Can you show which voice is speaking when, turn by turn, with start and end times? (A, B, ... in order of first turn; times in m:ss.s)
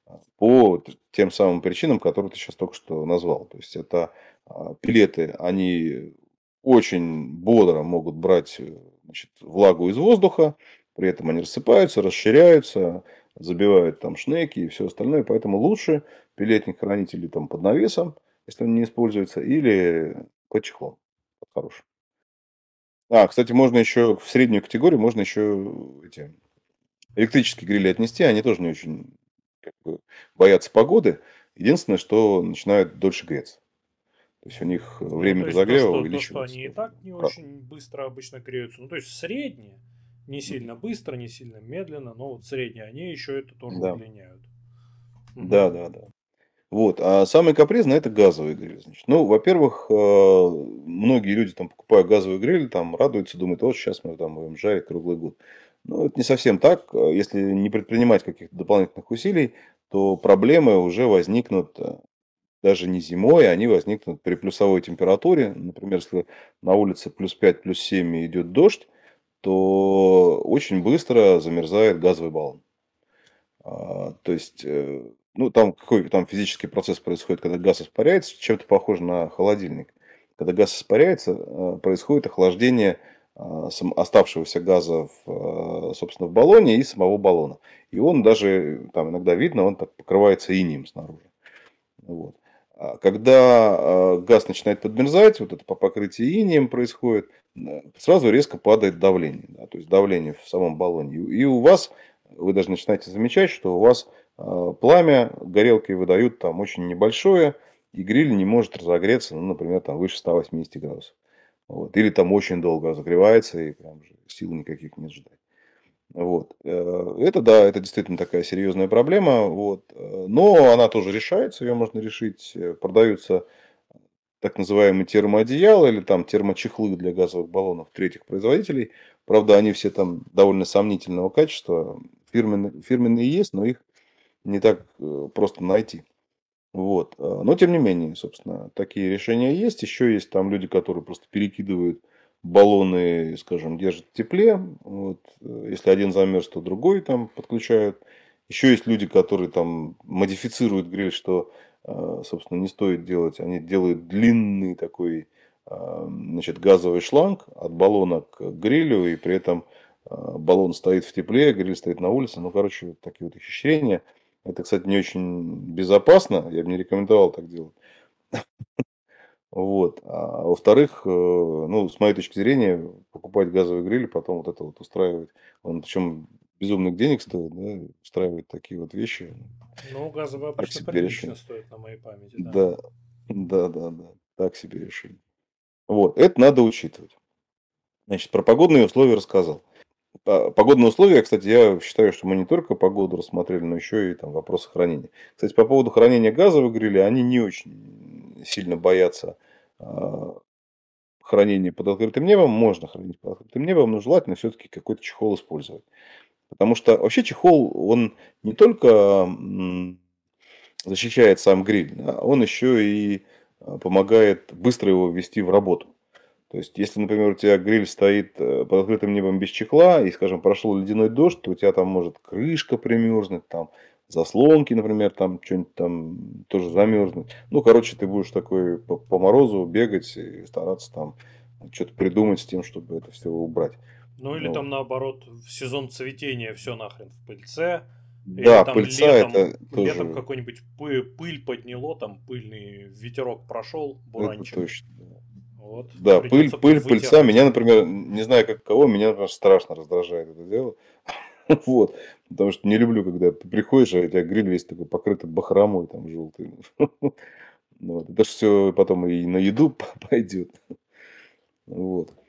0:00.4-0:21.8 A
0:23.1-0:26.4 A
0:27.2-0:33.6 A
0:34.4-0:37.3 A
0:35.2-0:44.5 B
0:43.7-0:44.0 A
0:45.4-0:45.7 B
0:45.4-0:46.1 A
0:46.7-1:02.0 A
1:02.6-1:08.9 A
1:09.4-1:12.6 A
1:13.6-1:31.3 A
1:32.0-1:51.1 A
1:51.7-1:55.3 A
1:56.1-2:03.4 A
2:04.4-2:13.8 A
2:14.4-2:16.0 A
2:16.7-2:47.8 A
2:49.5-2:59.4 A
2:59.8-3:02.7 B
3:00.6-3:01.3 A
3:02.4-3:02.8 A
3:03.3-3:05.2 A
3:05.9-3:07.1 A
3:08.1-3:09.6 A
3:10.3-3:20.4 A
3:21.2-3:25.9 A
3:26.5-3:30.0 A
3:30.9-3:35.9 A
3:36.5-3:53.8 A
3:54.2-4:04.6 B
3:54.3-3:54.6 A
3:58.3-4:00.2 A
4:04.2-4:05.0 A
4:05.6-4:07.5 B
4:06.0-4:10.8 A
4:11.5-4:17.2 A
4:17.8-4:20.6 A
4:21.7-4:22.1 A